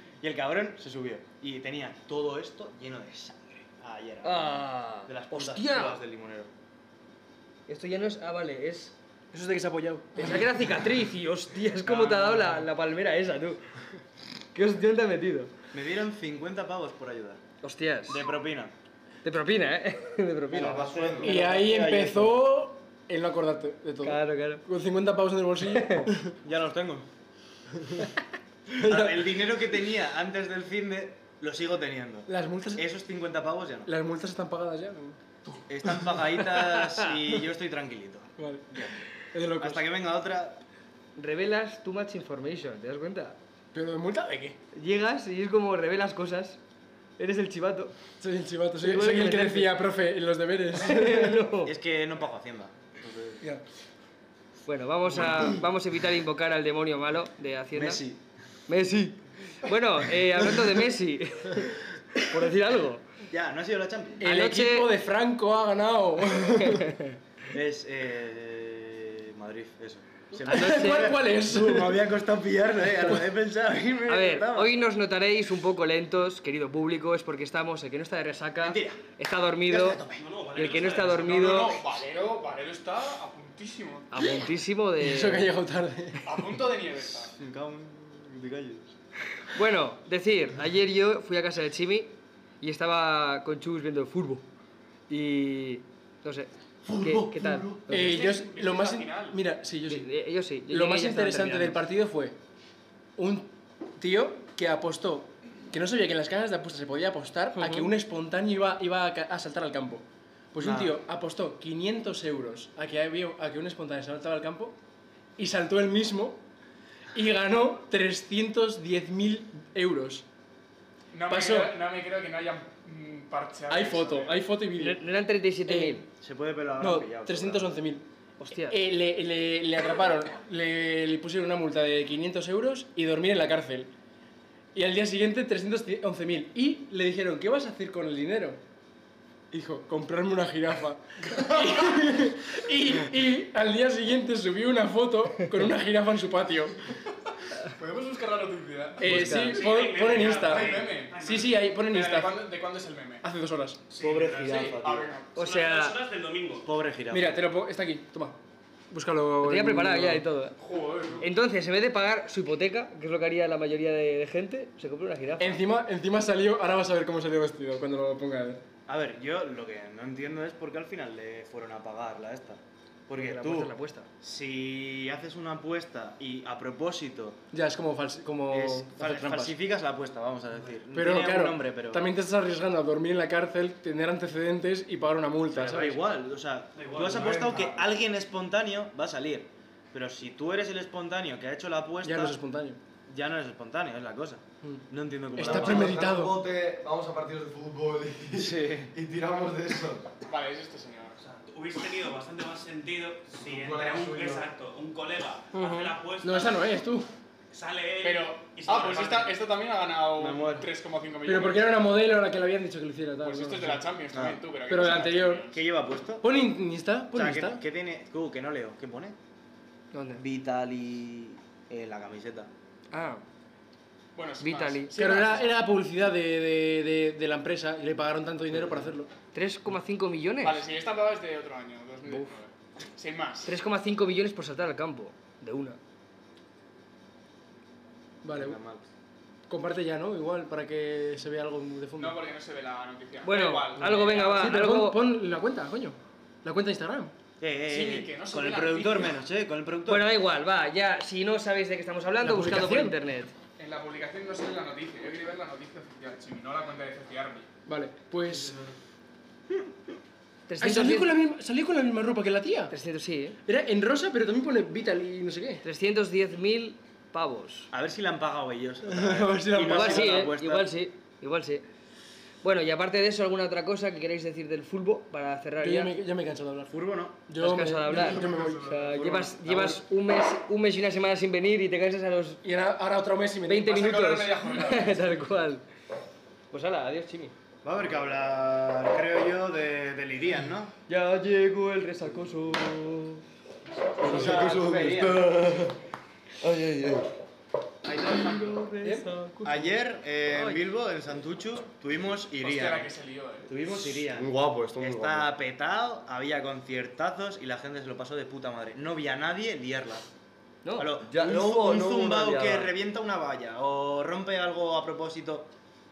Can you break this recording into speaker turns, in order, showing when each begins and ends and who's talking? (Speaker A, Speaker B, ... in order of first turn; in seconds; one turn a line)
Speaker A: 0.2-6.5
Speaker B: 4.2-6.0
Speaker B: 7.7-8.9
Speaker C: 9.3-10.5
Speaker B: 10.2-13.6
Speaker A: 11.9-12.4
Speaker B: 14.5-15.5
Speaker A: 15.7-17.4
Speaker B: 17.6-18.2
Speaker A: 18.1-18.7
Speaker B: 19.2-21.6
Speaker D: 20.5-21.4
Speaker A: 20.6-22.4
Speaker C: 21.2-26.3
Speaker B: 24.0-24.6
Speaker B: 25.6-26.1
Speaker A: 26.4-27.1
Speaker C: 28.7-29.4
Speaker A: 28.8-33.9
Speaker C: 32.3-32.8
Speaker C: 33.9-35.2
Speaker A: 35.7-38.9
Speaker C: 35.9-36.2
Speaker C: 38.4-39.9
Speaker A: 39.6-40.6
Speaker B: 41.2-43.4
Speaker C: 43.7-44.6
Speaker B: 44.7-46.6
Speaker B: 47.2-47.9
Speaker C: 48.2-51.4
Speaker B: 48.8-49.8
Speaker B: 50.8-51.7
Speaker A: 51.6-53.4
Speaker B: 54.6-58.0
Speaker A: 55.1-55.6
Speaker A: 57.7-58.2
Speaker B: 58.7-63.0
Speaker A: 63.3-64.2
Speaker C: 64.2-67.0
Speaker B: 64.2-64.9
Speaker B: 66.8-67.1
Speaker A: 67.5-74.7
Speaker C: 70.3-72.0
Speaker B: 70.5-71.1
Speaker B: 74.1-80.0
Speaker A: 78.6-79.0
Speaker A: 79.7-80.2
Speaker E: 80.1-81.6
Speaker B: 80.5-81.7
Speaker F: 81.1-84.1
Speaker B: 84.1-85.5
Speaker C: 85.0-86.3
Speaker F: 86.2-87.3
Speaker A: 87.4-88.9
Speaker B: 89.5-94.4
Speaker B: 95.1-98.2
Speaker A: 96.9-97.8
Speaker C: 97.9-100.1
Speaker E: 97.9-99.3
Speaker F: 98.0-99.3
Speaker B: 99.9-101.8
Speaker C: 100.7-102.4
Speaker C: 103.2-114.8
Speaker B: 107.5-107.9
Speaker A: 110.6-111.0
Speaker C: 115.4-116.4
Speaker C: 117.1-120.2
Speaker F: 121.1-124.4
Speaker C: 121.3-121.7
Speaker C: 123.7-125.0
Speaker B: 124.8-126.0
Speaker C: 125.7-126.0
Speaker A: 126.2-127.8
Speaker C: 126.8-128.1
Speaker B: 128.4-128.8
Speaker C: 128.6-133.9
Speaker C: 134.7-138.6
Speaker C: 139.5-146.8
Speaker F: 141.3-141.6
Speaker F: 147.7-153.2
Speaker C: 149.0-152.4
Speaker B: 149.0-149.6
Speaker E: 149.1-151.5
Speaker C: 153.2-153.8
Speaker E: 153.9-154.8
Speaker A: 154.0-155.1
Speaker F: 154.4-155.4
Speaker B: 155.3-156.0
Speaker E: 155.3-156.7
Speaker A: 156.6-157.4
Speaker C: 157.1-158.4
Speaker C: 158.9-160.2
Speaker B: 159.4-160.6
Speaker F: 160.6-161.3
Speaker B: 161.2-165.6
Speaker C: 165.4-168.6
Speaker A: 168.9-177.4
Speaker B: 173.1-174.1
Speaker C: 177.5-179.5
Speaker A: 178.5-182.1
Speaker C: 180.9-186.0
Speaker A: 185.5-192.4
Speaker E: 186.8-187.8
Speaker D: 187.2-187.6
Speaker C: 192.0-192.8
Speaker A: 193.1-196.0
Speaker C: 195.3-196.3
Speaker D: 195.4-200.1
Speaker F: 200.3-201.2
Speaker E: 201.2-206.7
Speaker D: 203.4-204.5
Speaker C: 205.5-207.1
Speaker E: 207.5-209.3
Speaker F: 208.0-211.8
Speaker A: 210.2-210.7
Speaker C: 211.2-213.8
Speaker F: 213.2-215.7
Speaker A: 214.1-214.4
Speaker C: 214.7-215.4
Speaker A: 215.5-216.2
Speaker C: 216.2-217.6
Speaker A: 217.1-219.2
Speaker B: 219.9-220.2
Speaker A: 220.2-222.5
Speaker B: 222.9-223.2
Speaker F: 224.1-225.5
Speaker B: 224.4-224.9
Speaker C: 224.9-229.1
Speaker A: 228.5-228.9
Speaker B: 229.3-230.6
Speaker F: 230.4-233.5
Speaker B: 232.1-232.3
Speaker B: 233.4-235.8
Speaker C: 238.2-238.6
Speaker A: 238.3-238.8
Speaker C: 239.5-242.2
Speaker F: 242.0-244.5
Speaker B: 243.2-245.0
Speaker C: 244.4-247.1
Speaker A: 247.4-250.1
Speaker F: 247.7-249.1
Speaker B: 249.9-253.3
Speaker C: 252.2-253.0
Speaker F: 253.6-257.5
Speaker C: 257.7-258.5
Speaker B: 260.5-261.1
Speaker C: 260.6-262.7
Speaker B: 262.7-263.4
Speaker C: 263.4-265.6
Speaker B: 265.6-267.7
Speaker A: 267.7-270.7
Speaker C: 268.9-270.2
Speaker B: 269.6-271.6
Speaker B: 272.4-275.9
Speaker C: 275.6-279.8
Speaker A: 276.7-277.2
Speaker B: 277.4-282.4
Speaker F: 277.9-278.7
Speaker C: 282.4-283.7
Speaker B: 283.5-285.6
Speaker F: 283.6-285.2
Speaker B: 286.5-287.3
Speaker A: 287.6-290.7
Speaker B: 290.9-293.2
Speaker A: 294.0-295.3
Speaker D: 294.0-295.8
Speaker D: 296.4-297.1
Speaker B: 297.9-299.8
Speaker A: 298.2-298.5
Speaker C: 298.8-299.1
Speaker A: 299.4-302.9
Speaker B: 300.3-300.6
Speaker F: 302.4-303.5
Speaker A: 303.5-310.1
Speaker D: 303.9-305.3
Speaker B: 310.6-310.9
Speaker A: 310.8-315.5
Speaker D: 311.1-312.7